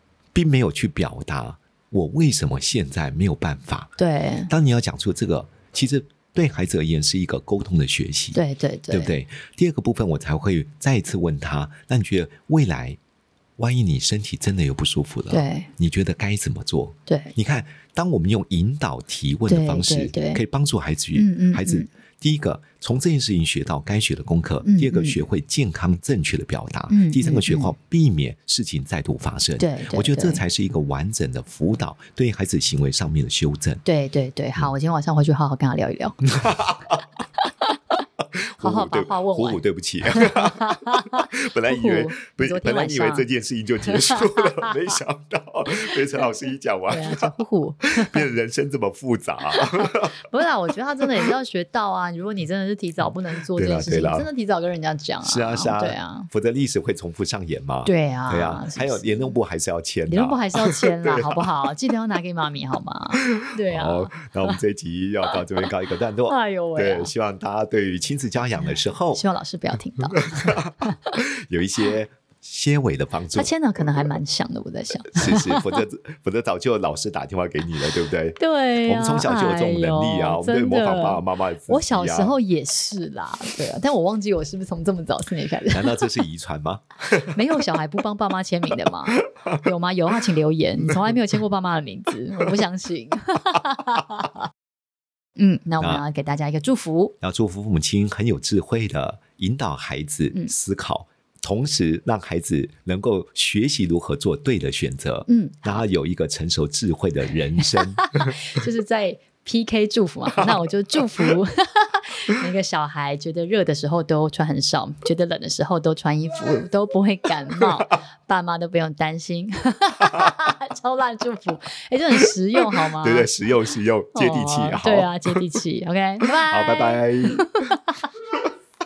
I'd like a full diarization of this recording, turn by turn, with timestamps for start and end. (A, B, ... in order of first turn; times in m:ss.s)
0:00.3-0:03.9 A
0:04.0-0:04.5 B
0:04.5-0:08.4 A
0:08.3-0:09.1 B
0:08.9-0:13.0 A
0:13.6-0:33.8 A
0:15.3-0:15.7 B
0:17.1-0:17.3 B
0:19.5-0:20.4 B
0:21.1-0:21.9 B
0:24.6-0:25.2 B
0:26.9-0:27.7 B
0:29.6-0:30.4 B
0:33.8-0:36.2 B
0:36.2-0:37.0 A
0:38.4-0:47.3 A
0:38.6-0:39.6 B
0:40.1-0:43.2 B
0:43.9-0:44.7 B
0:46.2-0:48.3 B
0:47.9-0:50.1 A
0:49.5-0:56.3 B
0:53.5-0:54.3 A
0:55.2-1:01.4 A
0:57.8-0:59.3 B
1:00.1-1:04.6 B
1:03.2-1:09.2 A
1:06.2-1:07.1 B
1:09.1-1:10.6 B
1:10.2-1:13.5 A
1:13.3-1:15.8 B
1:15.1-1:22.4 A
1:18.4-1:26.1 B
1:25.7-1:27.3 A
1:27.1-1:34.4 B
1:35.4-1:37.1 B
1:35.8-1:36.0 A
1:37.2-1:48.3 A
1:45.3-1:45.8 B
1:48.0-2:03.3 B
2:03.0-2:05.4 A
2:04.1-2:08.0 B
2:06.4-2:07.8 A